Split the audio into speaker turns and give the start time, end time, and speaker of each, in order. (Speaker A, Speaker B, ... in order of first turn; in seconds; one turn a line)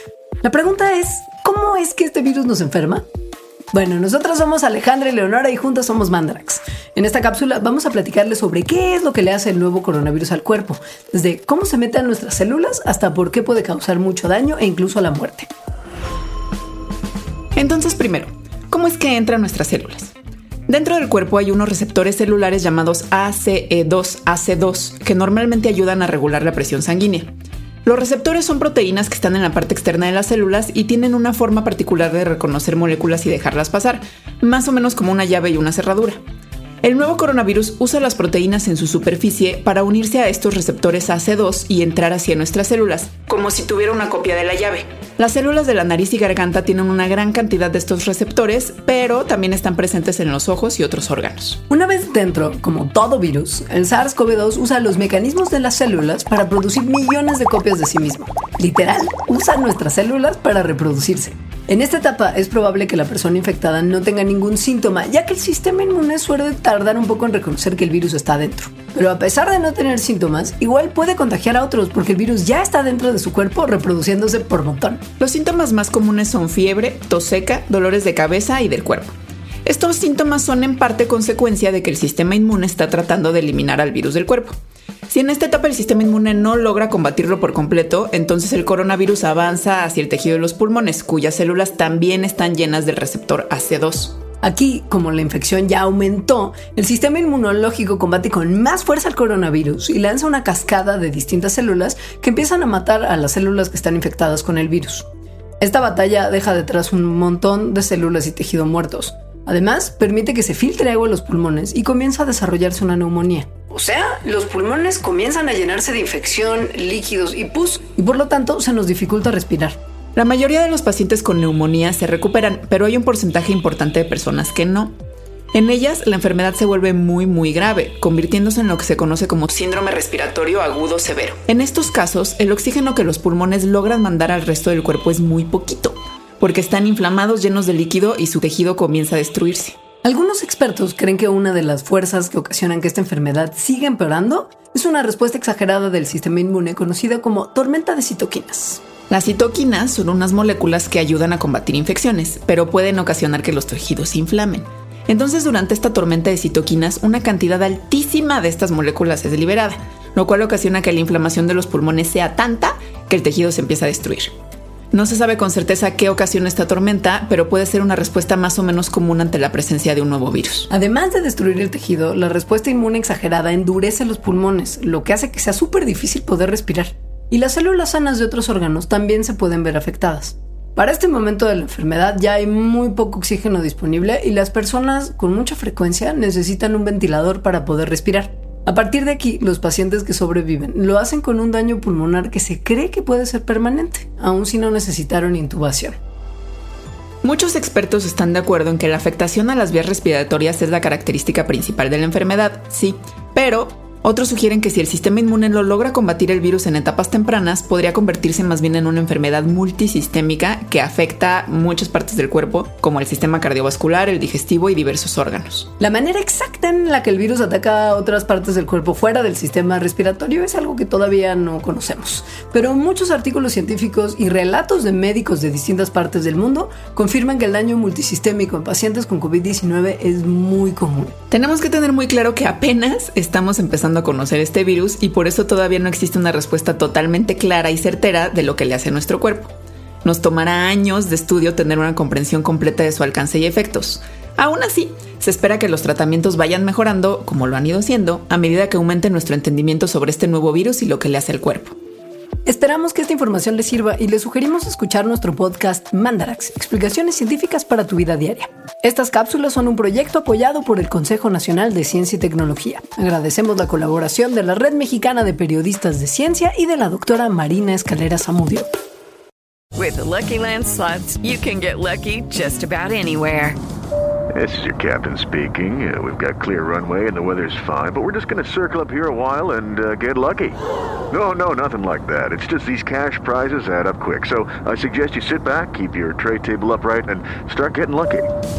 Speaker A: 0.4-3.0
Speaker A: 3.7-15.5
Speaker B: 17.6-20.1
Speaker B: 20.7-27.3
Speaker B: 27.9-36.2
Speaker B: 36.8-51.6
Speaker A: 51.7-75.0
Speaker B: 75.2-79.1
Speaker B: 79.7-84.6
Speaker B: 85.1-94.2
Speaker A: 94.4-105.1
Speaker A: 105.6-119.8
Speaker B: 120.2-125.0
Speaker B: 125.5-139.8
Speaker A: 140.0-148.8
Speaker B: 149.1-164.3
Speaker B: 164.9-170.7
Speaker A: 170.7-196.0
Speaker B: 197.2-215.7
Speaker A: 215.8-231.2
Speaker B: 231.3-239.5
Speaker B: 240.0-251.8
Speaker A: 252.5-268.7
Speaker C: 269.8-273.6
Speaker D: 274.3-280.6
Speaker D: 281.1-288.3